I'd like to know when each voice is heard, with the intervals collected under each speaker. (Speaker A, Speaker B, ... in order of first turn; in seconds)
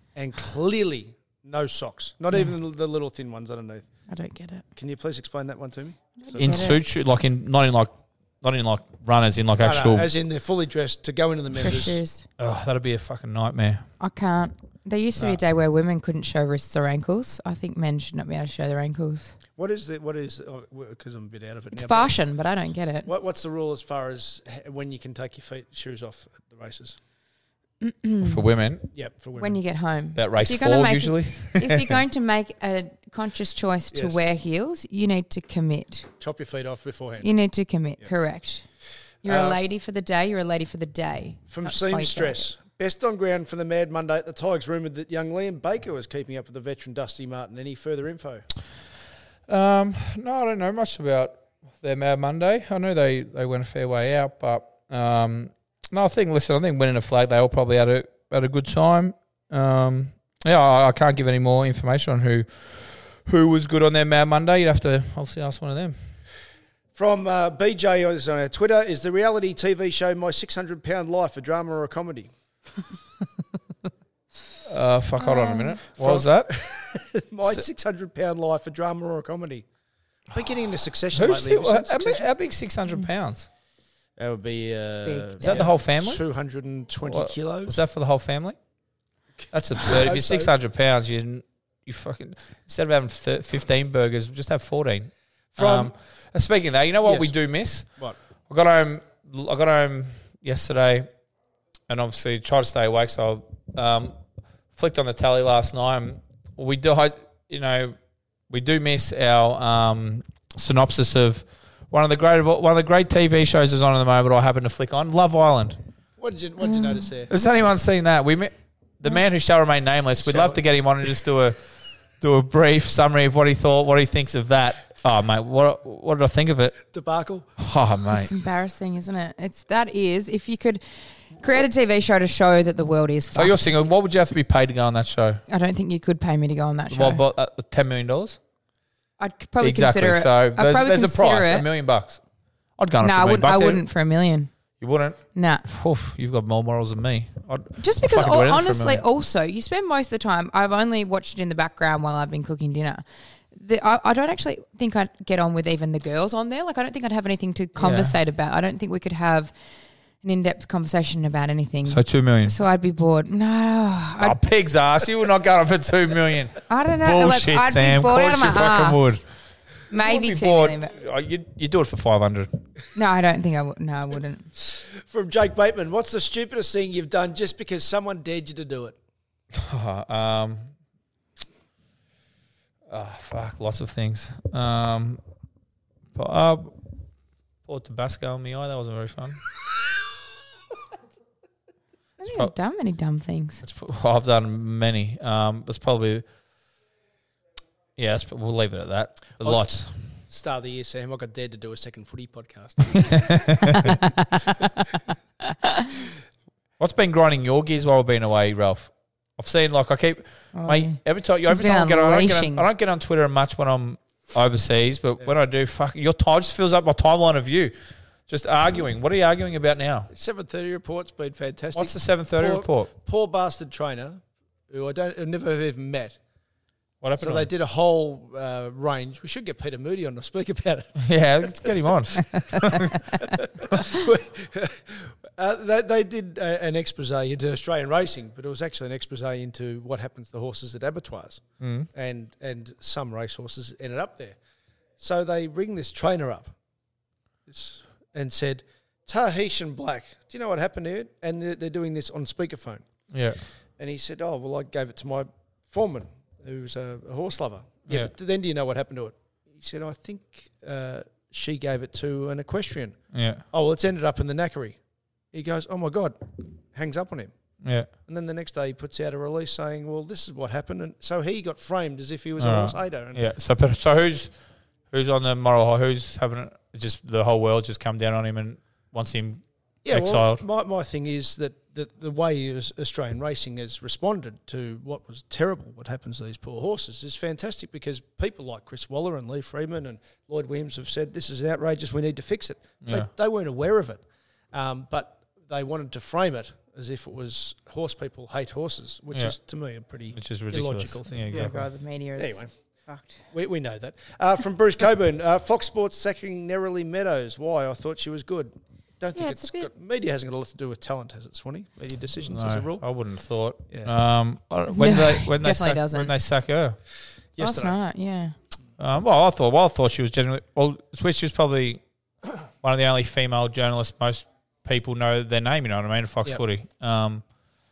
Speaker A: 0.1-3.9, 4.7-6.7, 9.6-12.0, 19.6-22.1, 23.1-27.0, 28.9-29.6, 33.9-34.2, 36.2-37.3, 39.2-39.6, 41.5-48.5, 66.9-72.3, 76.0-79.7, 80.3-82.3, 84.2-87.8, 89.4-90.5, 95.5-95.9, 97.0-97.3, 116.2-117.3, 120.2-120.6, 126.9-127.5, 174.6-178.9, 200.3-203.5, 220.1-226.2, 227.2-231.0, 233.2-241.4, 241.9-244.4, 245.0-246.5, 247.5-252.8, 253.8-264.8, 265.3-266.2, 266.7-267.3, 268.1-273.2, 279.8-301.6, 302.2-302.5, 303.3-312.8, 313.7-313.9, 317.4-317.8
Speaker B: 4.1-4.6, 6.2-6.8, 11.6-12.3, 14.0-19.4, 21.7-23.1, 27.8-28.4, 29.4-36.1, 37.2-38.6, 39.2-42.5, 75.2-75.8, 85.0-85.7, 116.6-117.0, 128.1-133.7, 135.5-137.2, 139.2-141.7, 143.0-144.5, 145.3-145.7, 147.8-159.5, 160.2-164.4, 166.7-169.2, 169.9-170.9, 172.9-174.5, 192.2-193.6, 203.8-204.7, 205.6-205.9, 210.5-212.7, 301.3-303.2, 309.1-309.7, 314.7-316.1, 317.4-318.3
Speaker C: 6.4-10.1, 12.4-13.9, 28.2-28.9, 30.1-32.0, 49.5-66.0, 74.7-76.5, 81.1-83.5, 85.4-86.2, 87.0-88.6, 89.5-101.1, 101.9-104.2, 104.7-108.0, 108.5-115.8, 117.3-121.6, 122.2-126.8, 127.6-128.3, 133.3-135.4, 136.9-138.4, 139.6-142.2, 142.8-143.8, 144.8-149.0, 157.8-158.2, 161.8-162.6, 164.2-169.2, 169.9-172.5, 179.5-180.7, 182.9-185.2, 186.1-186.7, 187.7-189.4, 192.2-192.5, 193.6-196.2, 198.0-199.9, 202.9-203.9, 206.8-217.7, 218.3-220.1, 221.7-222.9, 227.0-227.5, 231.0-233.2, 241.6-241.9, 253.1-253.4, 257.9-258.1, 263.1-263.4, 267.6-267.9, 272.4-274.3, 274.9-280.4, 292.8-293.1, 299.1-299.4, 300.1-301.6, 312.2-316.8, 318.8-321.8, 322.6-327.2